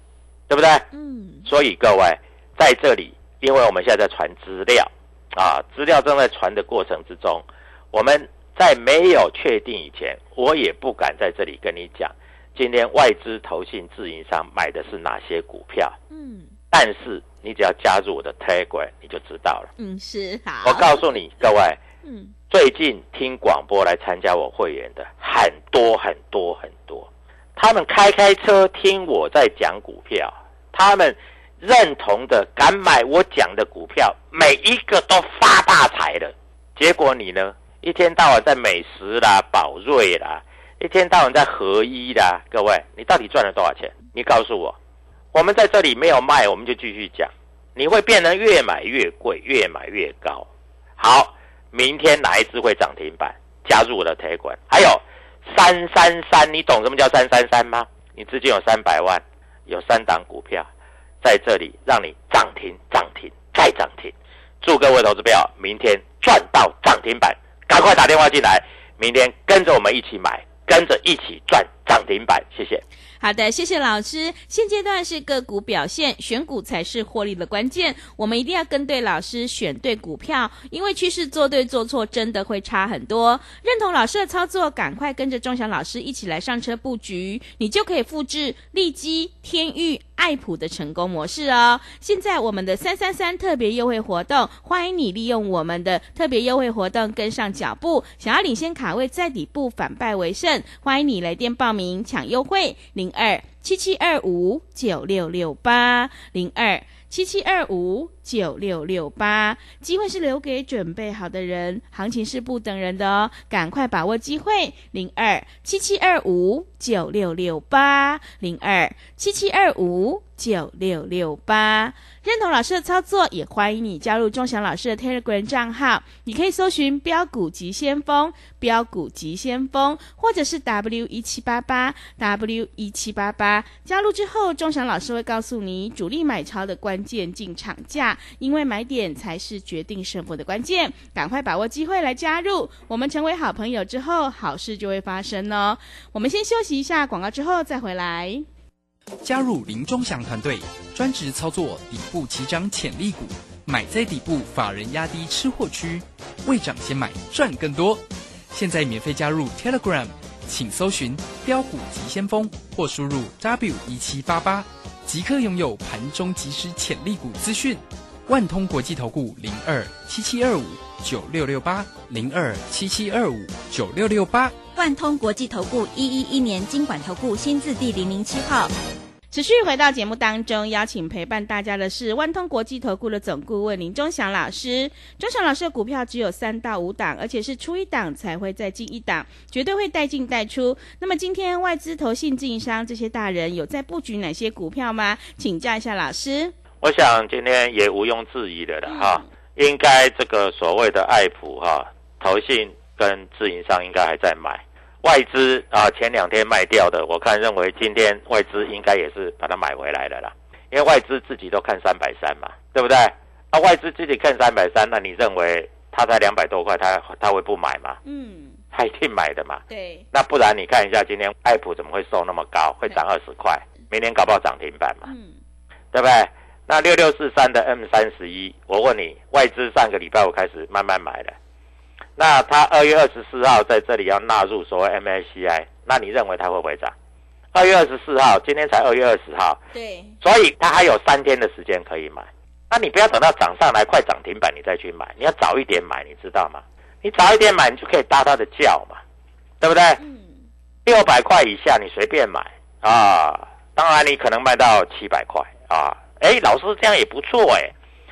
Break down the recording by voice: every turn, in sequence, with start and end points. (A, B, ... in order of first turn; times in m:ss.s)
0:00.5-0:00.9 A
0:00.9-0:01.5 B
0:01.4-0:16.0 A
0:16.1-0:16.5 B
0:16.7-0:19.7 A
0:19.8-0:20.9 B
0:20.6-0:21.8 A
0:22.0-0:22.3 B
0:22.5-0:44.8 A
0:45.3-0:50.5 A
0:51.0-1:00.7 A
1:01.2-1:12.8 A
1:13.2-2:28.4 B
2:29.2-2:54.5 C
2:54.7-2:58.7 D
2:59.3-3:16.5 B
3:16.8-3:38.0 A
3:18.9-3:19.2 B
3:38.0-3:38.6 B
3:38.7-3:45.1 A
3:39.7-3:40.0 B
3:45.0-3:45.4 B
3:45.9-3:51.3 A
3:52.2-3:56.9 A
3:57.5-3:59.6 A
3:59.7-4:00.2 B
4:00.2-4:09.0 A
4:09.6-4:10.0 A
4:10.0-4:10.4 B
4:10.8-4:17.7 A